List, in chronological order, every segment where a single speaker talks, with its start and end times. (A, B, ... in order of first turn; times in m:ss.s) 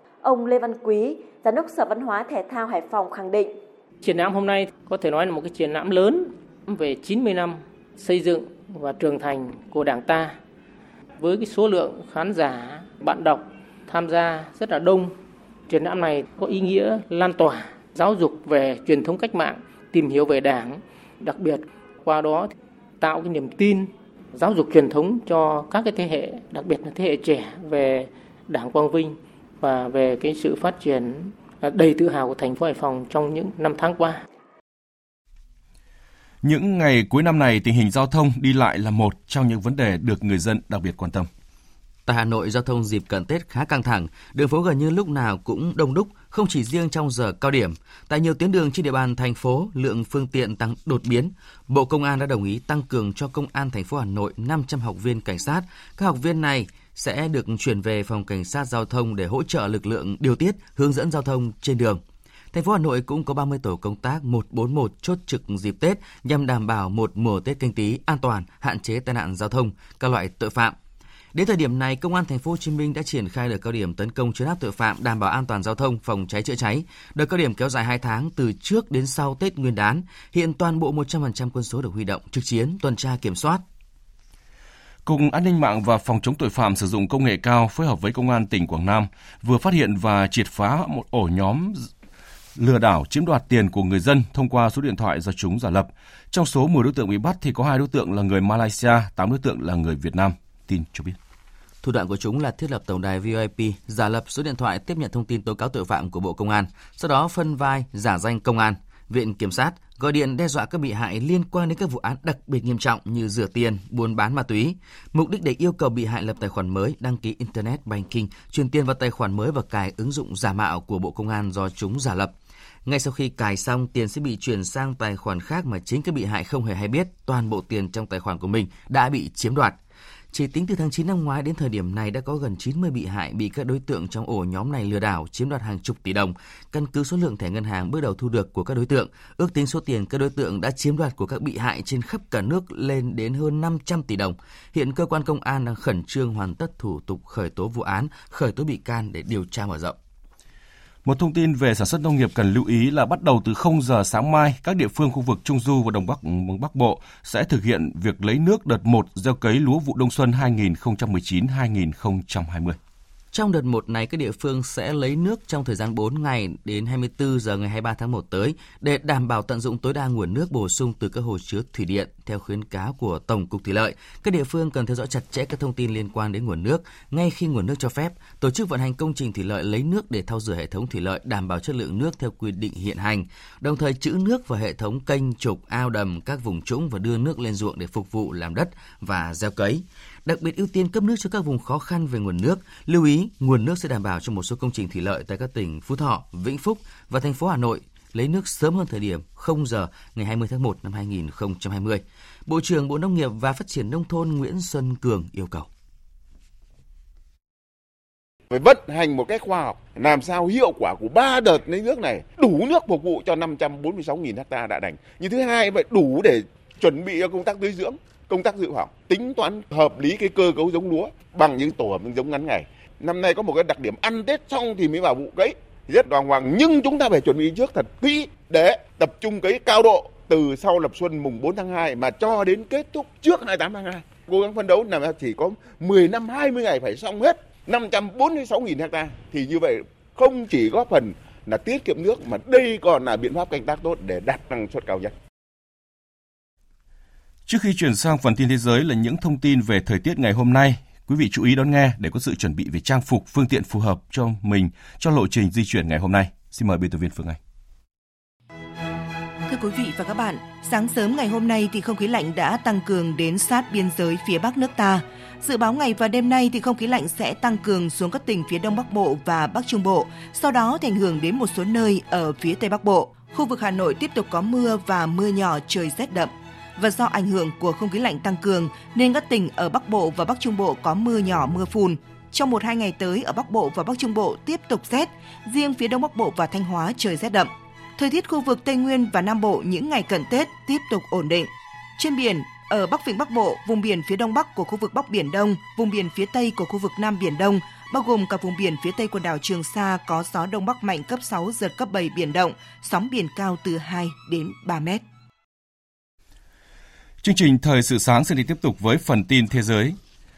0:00.2-0:03.6 A
0:04.0-0:10.4 B
0:11.2-0:15.2 B
0:15.7-0:34.2 B
0:36.4-0:41.3 C
0:42.1-1:02.0 D
1:02.5-1:10.8 D
1:11.3-1:23.6 D
1:25.1-1:31.9 C
1:32.6-1:41.2 C
1:41.8-2:09.8 D
2:10.3-2:30.0 D
2:31.0-2:42.8 C
2:43.3-3:25.7 D
3:28.5-4:05.1 E
4:07.5-4:17.4 C
4:19.5-5:05.0 F
5:07.2-5:10.0 C